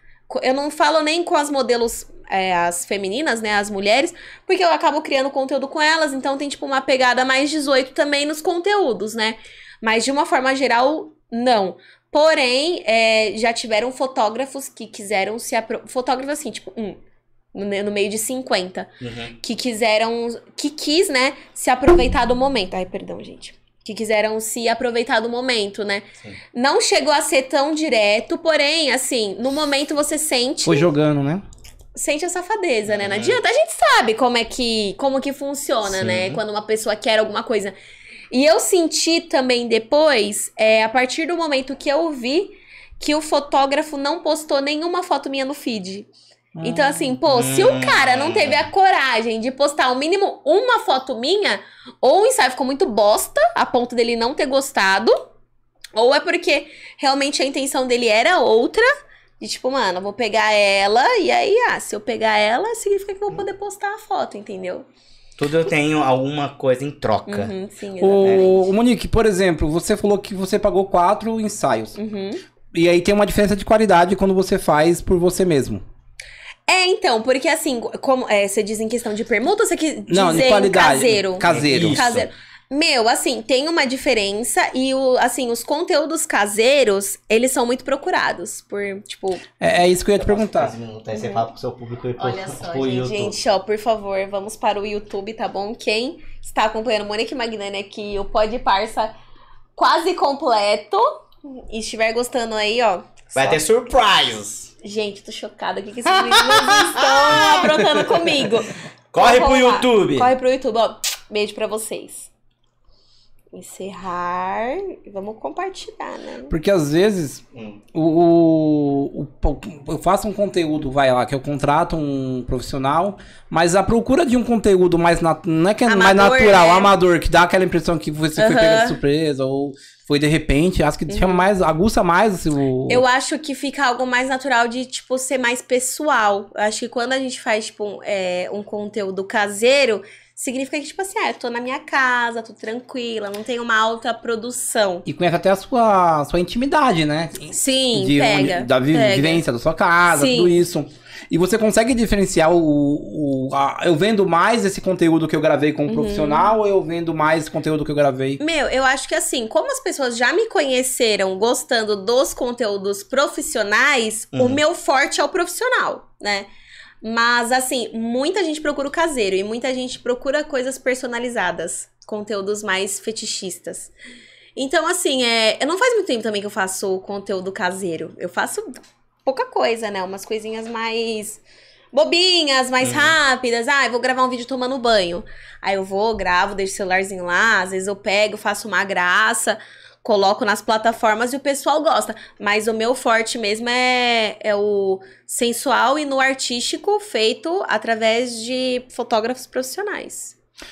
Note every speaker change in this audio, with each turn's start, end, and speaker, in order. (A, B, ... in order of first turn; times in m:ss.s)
0:00.3-0:17.0 A
0:17.5-0:30.9 A
0:19.0-0:19.3 B
0:30.6-0:31.4 C
0:31.9-0:37.7 A
0:32.9-0:33.4 B
0:35.8-0:36.4 B
0:38.3-0:46.1 A
0:46.5-0:47.2 C
0:46.6-0:55.2 A
0:47.3-0:48.7 B
0:55.9-0:58.9 A
0:59.4-1:04.8 A
1:05.4-1:07.5 B
1:07.3-1:08.6 A
1:08.0-1:12.0 C
1:08.2-1:08.5 B
1:12.0-1:12.4 A
1:12.7-1:15.8 C
1:16.7-1:29.4 A
1:20.1-1:22.0 C
1:21.4-1:22.2 B
1:29.6-1:30.7 C
1:30.2-1:33.3 B
1:31.1-1:31.4 A
1:32.2-1:39.1 A
1:39.8-1:43.6 A
1:43.3-1:44.7 B
1:44.8-1:52.3 A
1:46.1-1:47.9 B
1:49.1-1:50.3 B
1:53.5-1:56.5 A
1:56.5-1:57.4 C
1:57.5-1:57.8 B
1:57.9-2:13.0 C
2:05.9-2:06.9 A
2:08.4-2:09.0 A
2:11.1-2:11.5 A
2:12.9-2:25.0 A
2:25.0-2:38.4 C
2:27.5-2:29.4 A
2:30.1-2:30.6 A
2:35.9-2:36.5 A
2:38.4-2:46.5 A
2:44.3-2:44.6 B
2:47.0-2:53.9 A
2:54.6-3:20.3 A
3:02.8-3:03.2 B